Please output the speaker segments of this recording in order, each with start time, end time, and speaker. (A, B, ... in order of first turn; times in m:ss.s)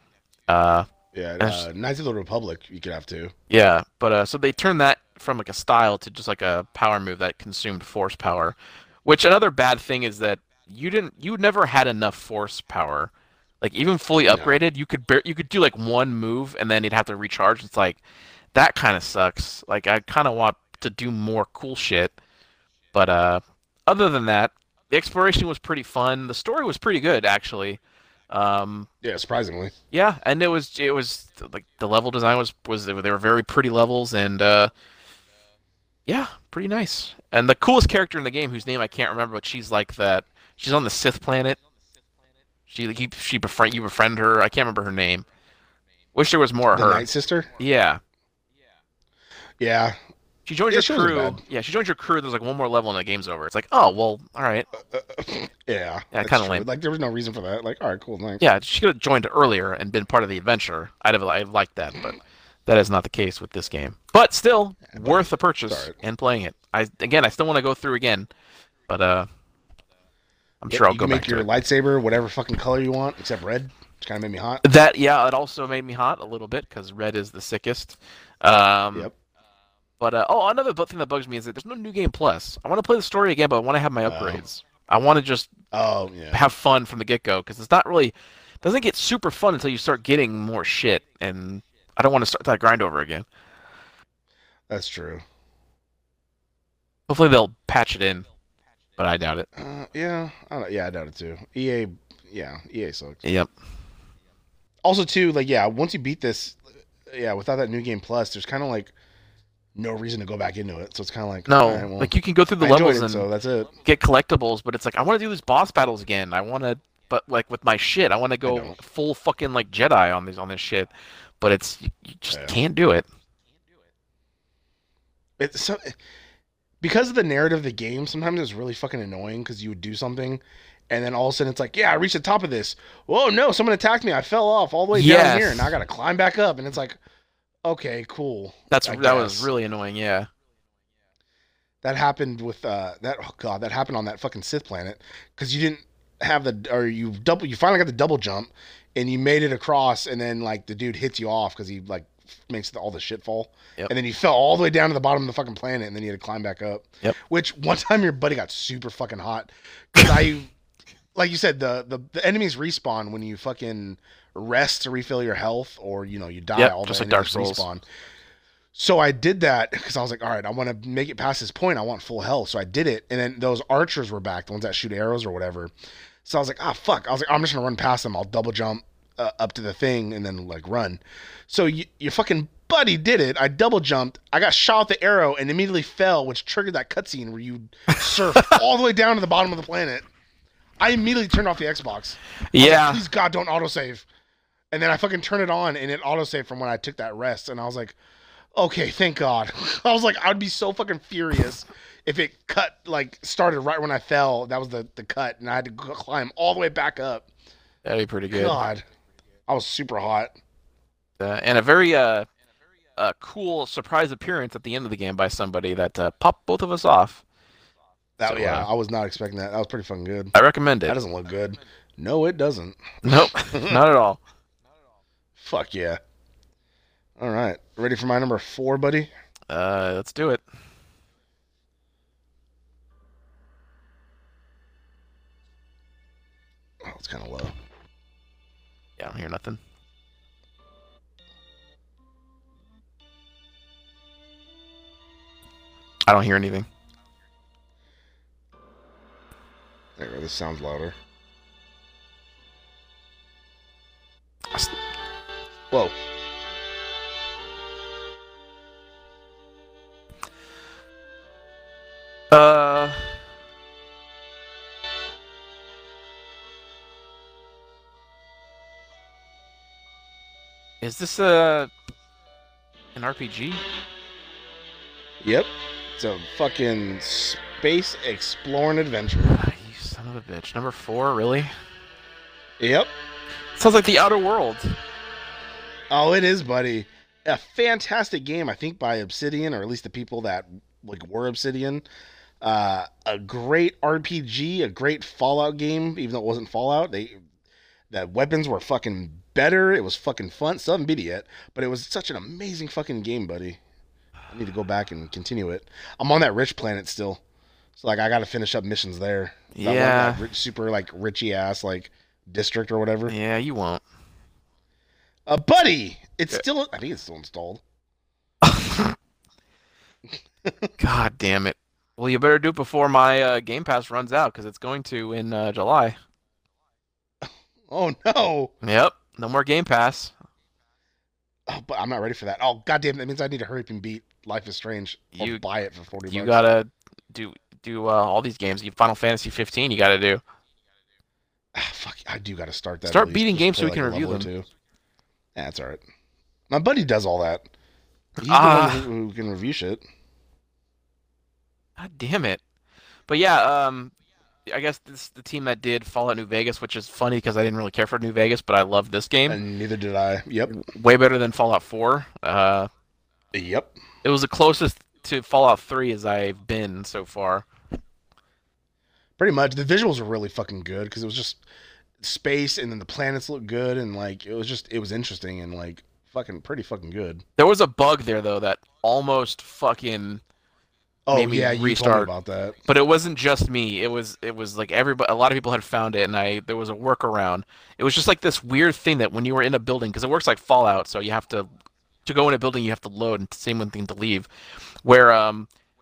0:00.5-0:00.9 A
0:01.1-0:03.3 B
0:01.4-0:01.7 A
0:03.5-0:18.0 A
0:14.3-0:14.6 B
0:18.5-0:22.2 A
0:22.9-0:27.8 A
0:28.3-0:28.9 A
0:29.0-0:29.7 B
0:29.9-0:34.7 A
0:36.1-0:41.6 A
0:42.7-0:45.3 A
0:46.1-0:47.1 A
0:46.7-0:47.5 B
0:47.6-0:48.0 A
0:49.6-0:50.0 B
0:50.5-0:54.7 A
0:50.7-0:51.4 B
0:54.9-0:58.5 B
0:56.1-0:56.7 A
0:58.4-1:08.3 A
1:04.9-1:06.0 B
1:08.9-1:09.3 A
1:10.6-1:11.5 A
1:10.7-1:14.6 B
1:14.6-1:19.1 A
1:20.0-1:25.5 A
1:24.1-1:24.4 B
1:25.7-1:26.4 B
1:26.3-1:33.3 A
1:34.7-1:35.2 B
1:37.1-1:38.3 A
1:39.0-1:39.5 A
1:39.6-1:43.2 B
1:43.2-1:43.5 A
1:44.8-1:48.9 B
1:49.8-1:53.7 B
1:51.5-1:53.3 A
1:53.8-2:03.1 A
1:58.4-1:58.8 B
2:02.3-2:02.6 B
2:05.4-2:06.0 B
2:06.8-2:17.0 B
2:14.9-2:15.7 A
2:17.6-2:19.5 B
2:18.7-2:20.3 A
2:21.8-2:40.5 B
2:41.2-2:47.8 B
2:46.6-2:47.6 A
2:48.7-2:55.7 B
2:56.2-3:10.1 B
3:07.9-3:08.6 A
3:10.8-3:14.1 B
3:12.5-3:13.0 A
3:14.7-3:18.0 B
3:18.6-3:27.3 B
3:27.8-3:28.6 A
3:28.3-3:28.9 B
3:29.5-3:30.4 B
3:31.2-3:32.3 A
3:33.0-3:37.2 A
3:38.2-3:40.3 B
3:38.2-3:38.7 A
3:40.3-3:41.0 A
3:40.9-3:43.8 B
3:43.0-3:44.2 A
3:45.4-3:46.0 B
3:47.2-3:49.1 B
3:49.5-3:50.4 A
3:56.8-3:57.6 B
3:59.0-3:59.6 A
4:06.1-4:06.7 A
4:10.0-4:11.0 B
4:15.7-4:16.0 B
4:22.3-4:23.0 A
4:30.8-4:31.7 A
4:33.0-4:33.6 A
4:35.2-4:39.4 B
4:39.2-4:41.5 A
4:42.6-4:42.9 B
4:43.6-4:44.8 A
4:45.9-4:51.8 B
4:52.4-4:57.2 B
4:57.9-5:03.6 B
5:04.3-5:07.2 B
5:07.8-5:13.1 B
5:09.5-5:10.2 A
5:13.1-5:13.8 A
5:15.3-5:17.6 B
5:18.4-5:19.0 A
5:20.4-5:20.7 B
5:20.8-5:26.0 A
5:27.2-5:28.5 B
5:28.6-5:30.1 A
5:31.5-5:36.5 B
5:35.2-5:35.4 A
5:36.1-5:40.2 A
5:41.5-5:44.5 B
5:42.9-5:44.3 A
5:45.4-5:45.8 B
5:46.5-5:47.5 B
5:48.2-5:48.9 A
5:48.2-5:49.8 B
5:51.8-5:52.4 A
5:53.1-5:53.9 A
5:54.5-5:59.4 A
5:59.3-6:00.6 B
6:00.5-6:02.7 A
6:03.3-6:03.8 B
6:04.0-6:07.5 A
6:09.2-6:11.4 B
6:12.0-6:17.2 B
6:17.4-6:20.2 A
6:21.1-6:22.6 B
6:21.1-6:22.1 A
6:22.7-6:31.5 A
6:32.0-6:34.3 A
6:34.8-6:35.5 A